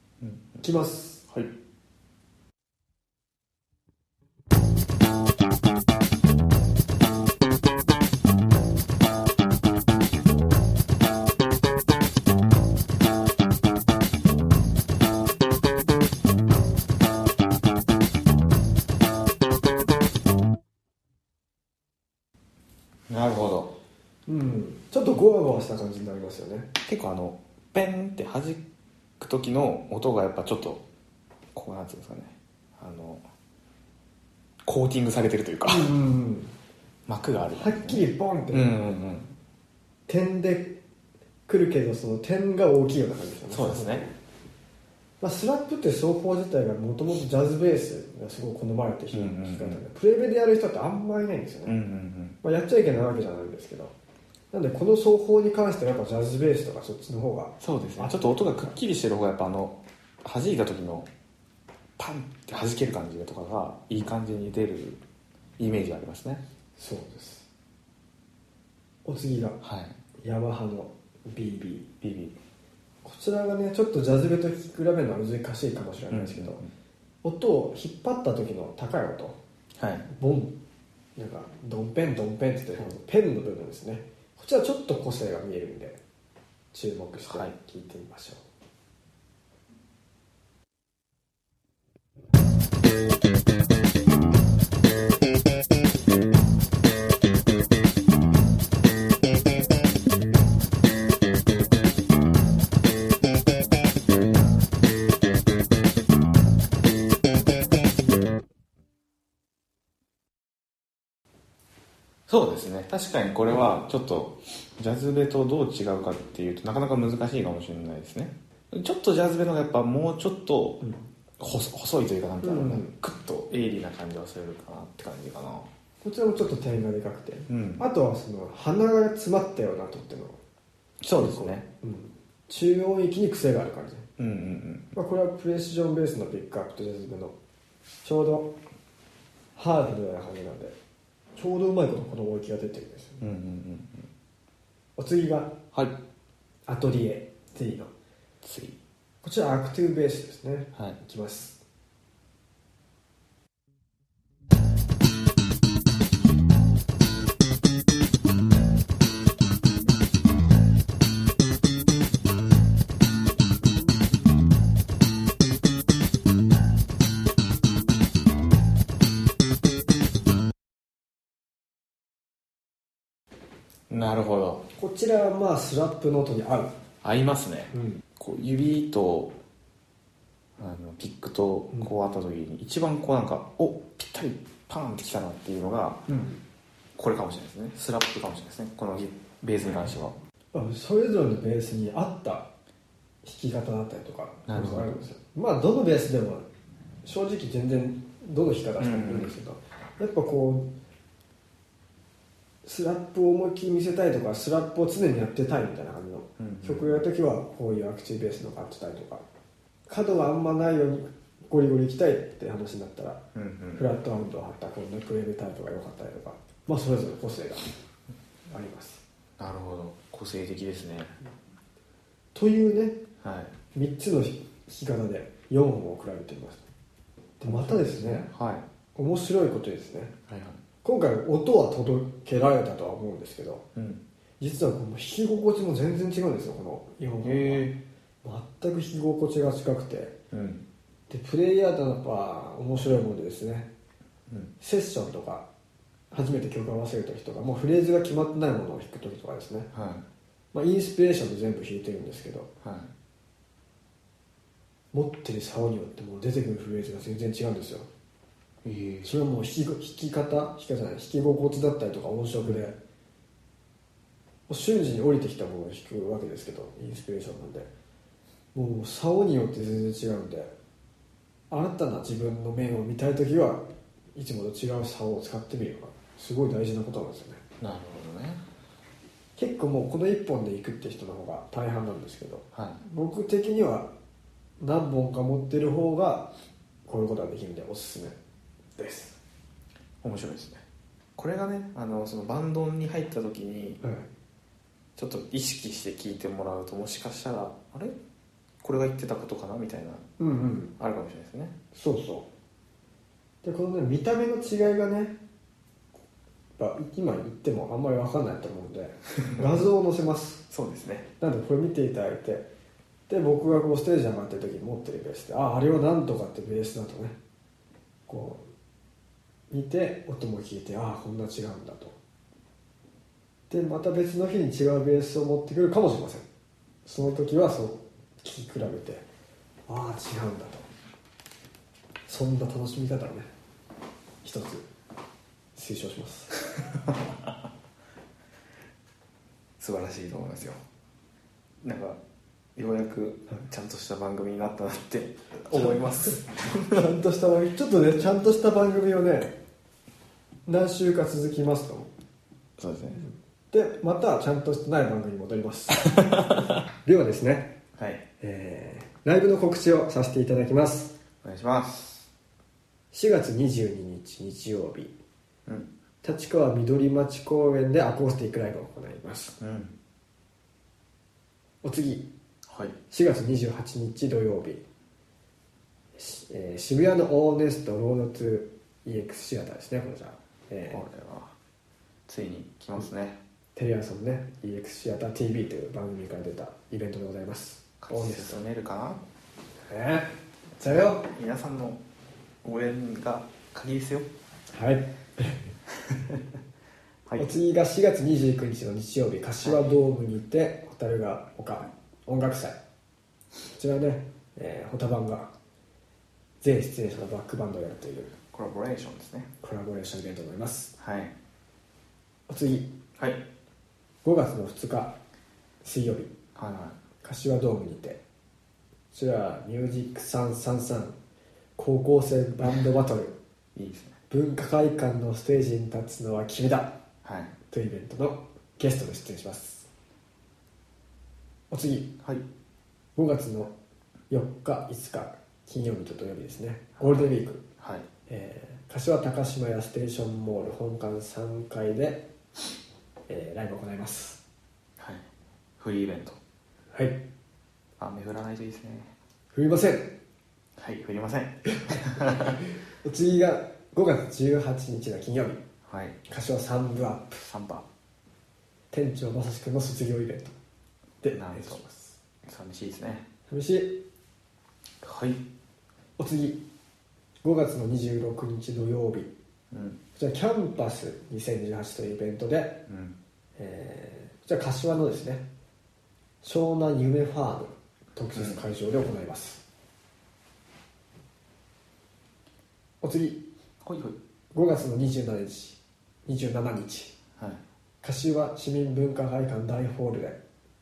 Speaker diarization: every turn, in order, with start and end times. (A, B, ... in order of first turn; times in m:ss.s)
0:00.2-0:00.6 A
0:00.6-0:01.2 B
0:01.3-0:01.5 A
0:23.1-0:23.8 A
0:24.3-0:26.7 B
0:26.8-0:28.6 A
0:29.2-0:30.8 A
0:31.5-0:33.2 A
0:34.6-0:35.9 A
0:35.6-0:36.5 B
0:37.1-0:39.3 A
0:37.5-0:38.7 B
0:40.1-0:40.8 B
0:41.5-0:44.1 B
0:43.5-0:44.0 A
0:45.2-0:51.8 B
0:49.1-0:49.8 A
0:51.6-0:52.4 A
0:52.4-0:53.9 B
0:54.5-0:58.8 B
0:57.6-1:01.1 A
1:02.0-1:05.0 A
1:05.6-1:06.4 A
1:06.8-1:07.5 B
1:09.0-1:09.6 B
1:09.6-1:10.0 A
1:10.2-1:11.9 B
1:12.0-1:12.4 A
1:13.0-1:16.6 B
1:16.1-1:16.7 A
1:17.2-1:19.4 B
1:19.8-1:20.1 A
1:20.1-1:20.6 B
1:21.2-1:26.0 B
1:26.7-1:28.4 B
1:27.2-1:27.5 A
1:52.3-2:00.8 A
2:01.4-2:05.7 A
2:02.4-2:02.9 B
2:06.0-2:10.4 B
2:07.5-2:07.8 A
2:11.0-2:11.6 A
2:11.1-2:14.1 B
2:14.2-2:14.9 A
2:14.9-2:17.4 B
2:18.0-2:18.5 B
2:19.6-2:20.8 B
2:21.4-2:23.2 B
2:23.2-2:24.1 A
2:25.0-2:25.6 B
2:25.7-2:26.0 A
2:26.7-2:27.9 B
2:28.4-2:28.8 A
2:29.2-2:31.6 B
2:53.9-2:54.6 A
2:54.8-2:56.7 B
2:57.0-2:59.4 A
2:57.7-2:58.0 B
3:00.6-3:06.0 A
3:06.1-3:06.4 B
3:07.0-3:10.2 A
3:10.5-3:12.5 B
3:13.2-3:16.4 B
3:14.5-3:15.0 A
3:17.0-3:20.7 B
3:18.8-3:19.4 A
3:22.6-3:29.2 B
3:26.4-3:27.0 A
3:29.9-3:33.2 B
3:33.3-3:33.8 A
3:33.8-3:37.7 B
3:38.5-3:39.0 B
3:39.4-3:41.2 A
3:42.4-3:43.0 B
3:43.2-3:43.5 A
3:43.7-3:46.6 B
3:47.4-3:48.3 B
3:47.4-3:48.6 A
3:48.9-3:50.1 B
3:50.3-3:50.6 A
3:50.8-3:53.7 B
3:53.8-3:54.0 A
3:54.4-3:57.7 B
3:57.2-3:57.8 A
3:58.2-4:00.2 B
4:00.3-4:00.6 A
4:01.1-4:03.7 B
4:04.6-4:05.5 B
4:06.1-4:09.7 B
4:09.7-4:10.0 A
4:10.5-4:12.5 B
4:12.6-4:12.9 A
4:14.9-4:17.9 B
4:18.6-4:19.2 A
4:19.0-4:22.8 B
4:24.5-4:27.7 B
4:28.5-4:30.5 B
4:31.5-4:37.4 B
4:37.6-4:38.4 A
4:39.4-4:43.9 B
4:42.5-4:42.8 A
4:44.6-4:46.3 B
4:46.9-4:48.2 B
4:48.8-4:49.2 B
4:50.0-4:50.6 A
4:51.2-4:53.8 A
4:53.8-4:54.1 B
4:55.0-4:58.0 A
4:58.6-5:00.0 A
5:00.2-5:00.7 B
5:00.8-5:01.6 A
5:01.7-5:02.3 B
5:03.4-5:05.2 B
5:06.6-5:10.4 B
5:09.2-5:09.6 A
5:10.5-5:11.1 A
5:11.2-5:12.5 B
5:13.1-5:17.2 B
5:18.1-5:18.4 B
5:19.5-5:22.0 B
5:23.5-5:26.3 B
5:26.9-5:29.0 B
5:29.7-5:30.7 B
5:32.1-5:33.3 B
5:34.2-5:34.7 B
5:35.6-5:36.4 B
5:36.5-5:37.3 A
5:39.6-5:40.6 A
5:41.6-5:42.0 A
5:42.6-5:46.9 A
5:46.6-5:49.4 B
5:50.5-5:51.9 B
5:52.6-5:53.0 A
5:53.0-5:57.6 B
5:55.8-5:56.5 A
5:57.8-5:58.0 A
5:58.2-6:01.0 B
6:01.2-6:02.1 A
6:02.9-6:04.9 B
6:06.0-6:09.4 B
6:09.4-6:09.8 A
6:11.6-6:12.1 B
6:12.5-6:12.8 A
6:12.9-6:14.6 B
6:16.0-6:20.8 B
6:20.7-6:21.4 A
6:22.1-6:23.2 A
6:23.6-6:28.4 B
6:27.8-6:29.0 A
6:29.7-6:31.1 B
6:30.6-6:31.8 A
6:32.4-6:34.1 A
6:34.5-6:35.4 B
6:35.9-6:36.2 A
6:37.2-6:42.6 B
6:43.5-6:45.3 B
6:46.4-6:48.2 B
6:48.3-6:49.3 A
6:49.4-6:50.7 B
6:50.8-6:51.1 A
6:52.3-6:52.7 B
6:53.0-6:53.2 A
6:54.0-6:55.0 B
6:55.6-6:56.1 B
6:56.4-6:56.8 A
6:57.0-6:58.0 B
6:58.9-7:01.0 B
7:01.6-7:03.2 B
7:03.6-7:04.0 A
7:04.1-7:06.8 B
7:07.0-7:07.4 A
7:07.5-7:09.7 B
7:11.5-7:11.9 B
7:13.0-7:13.5 B
7:14.1-7:17.4 B
7:17.6-7:17.9 A
7:18.1-7:22.1 B
7:23.1-7:24.2 B
7:24.8-7:25.1 A
7:25.6-7:26.2 A
7:26.7-7:27.0 B
7:27.8-7:28.9 A
7:29.3-7:30.0 B
7:30.6-7:32.4 A
7:31.6-7:35.4 B
7:35.6-7:36.0 A
7:36.1-7:37.2 B
7:37.2-7:37.7 A
7:38.7-7:40.3 B
7:41.0-7:42.0 B
7:41.1-7:41.6 A
7:42.2-7:43.1 A
7:43.3-7:43.8 B
7:44.8-7:45.2 A
7:46.0-7:46.4 B
7:47.2-7:49.1 B
7:49.5-7:49.8 A
7:49.9-7:52.6 B
7:52.7-7:53.0 A
7:53.4-7:55.2 B
7:56.2-7:59.4 B
7:58.1-7:58.4 A
8:02.8-8:03.2 B
8:03.6-8:04.0 A
8:04.3-8:06.9 B
8:07.2-8:07.4 A
8:07.8-8:10.2 B